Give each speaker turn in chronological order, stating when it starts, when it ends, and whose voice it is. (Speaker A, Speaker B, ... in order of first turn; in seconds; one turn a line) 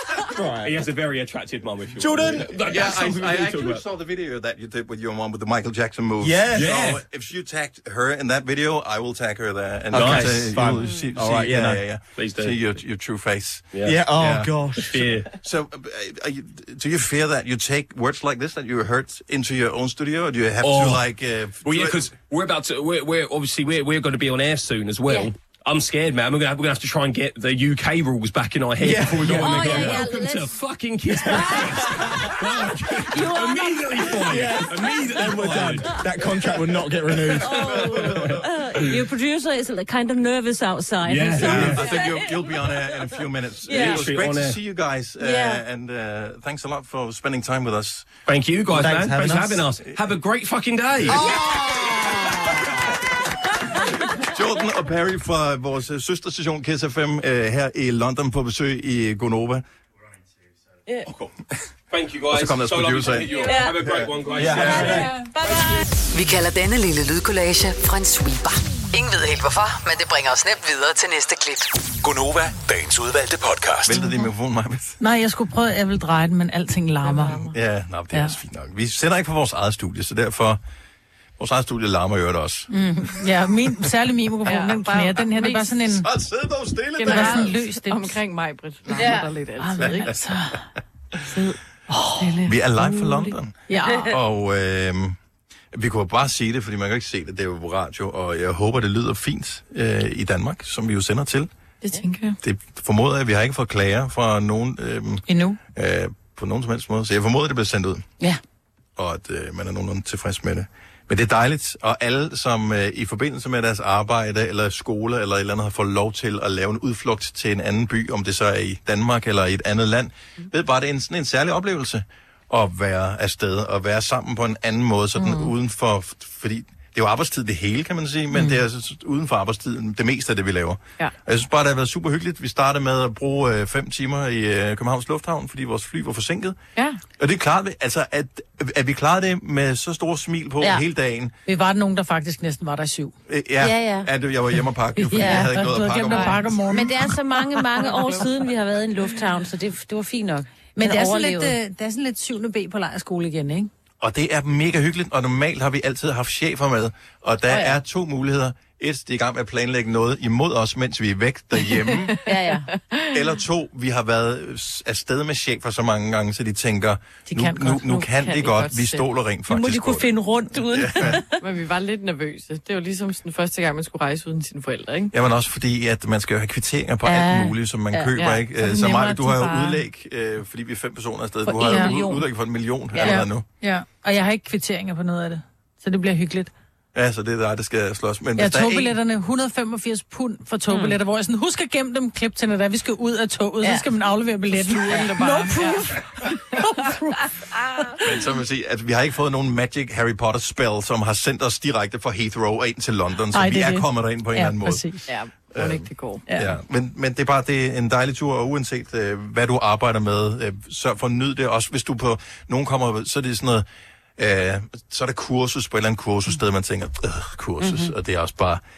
Speaker A: 0.3-0.8
Speaker B: 0.6-3.8
Speaker A: 2.0-2.6
Speaker C: 2.5-14.6
Speaker A: 6.2-6.8
Speaker B: 6.5-7.0
Speaker A: 9.9-11.8
Speaker B: 9.9-10.6
Speaker B: 12.1-12.6
Speaker B: 13.7-14.1
Speaker A: 13.8-15.2
Speaker B: 14.8-15.3
Speaker C: 15.3-22.1
Speaker B: 20.6-21.0
Speaker B: 21.6-35.8
Speaker D: 25.1-25.3
Speaker A: 28.8-30.0
Speaker D: 29.3-30.5
Speaker A: 31.1-32.3
Speaker D: 31.3-31.7
Speaker D: 33.1-34.1
Speaker A: 34.1-38.2
Speaker D: 37.3-42.6
Speaker B: 41.0-41.9
Speaker C: 41.4-48.1
Speaker D: 43.6-44.1
Speaker B: 43.7-44.6
Speaker D: 45.2-45.6
Speaker B: 48.2-51.3
Speaker A: 48.7-49.7
Speaker C: 51.0-51.3
Speaker A: 51.2-52.3
Speaker C: 54.3-59.6
Speaker B: 61.9-65.1
Speaker C: 62.3-64.1
Speaker D: 63.3-63.8
Speaker A: 64.3-65.2
Speaker D: 64.4-65.8
Speaker E: 66.1-71.7
Speaker F: 72.0-74.0
Speaker C: 73.8-75.0
Speaker G: 75.0-77.4
Speaker H: 77.0-77.5
Speaker C: 77.5-80.6
Speaker C: 81.4-82.7
Speaker G: 82.7-86.1
Speaker H: 84.5-85.9
Speaker C: 85.9-87.6
Speaker H: 87.0-90.1
Speaker G: 87.0-88.1
Speaker D: 88.9-89.3
Speaker G: 89.6-90.6
Speaker C: 89.8-90.2
Speaker H: 91.3-91.6
Speaker G: 91.9-92.2
Speaker H: 92.2-92.6
Speaker C: 92.4-95.2
Speaker G: 93.7-94.1
Speaker C: 95.7-101.5
Speaker H: 101.8-102.4
Speaker C: 102.4-108.1
Speaker G: 105.3-105.6
Speaker C: 109.0-136.6
Speaker H: 125.2-125.5
Speaker H: 136.8-137.0
Speaker C: 137.2-141.3
Speaker G: 141.4-143.1
Speaker C: 143.3-146.6
Speaker D: 143.6-144.1
Speaker G: 145.0-147.1
Speaker D: 145.1-145.5
Speaker D: 146.7-151.5
Speaker H: 147.8-148.2
Speaker G: 150.8-153.7
Speaker C: 154.0-162.2
Speaker D: 157.5-157.8
Speaker H: 162.1-163.2
Speaker D: 162.2-162.7
Speaker C: 163.1-170.1
Speaker G: 167.3-167.9
Speaker H: 167.8-169.1
Speaker D: 169.5-171.3
Speaker C: 170.7-171.2
Speaker H: 171.4-175.1
Speaker C: 175.1-183.4
Speaker D: 177.0-178.3
Speaker H: 178.7-179.5
Speaker D: 181.4-182.2
Speaker G: 181.6-182.0
Speaker D: 182.9-183.2
Speaker G: 183.0-186.5
Speaker C: 186.9-188.9
Speaker G: 188.4-197.5
Speaker D: 190.7-191.0
Speaker H: 194.5-195.8
Speaker C: 198.0-204.8
Speaker G: 203.3-205.0
Speaker H: 205.1-206.2
Speaker C: 205.5-213.6
Speaker G: 206.3-206.5
Speaker C: 214.2-218.6
Speaker D: 217.6-217.9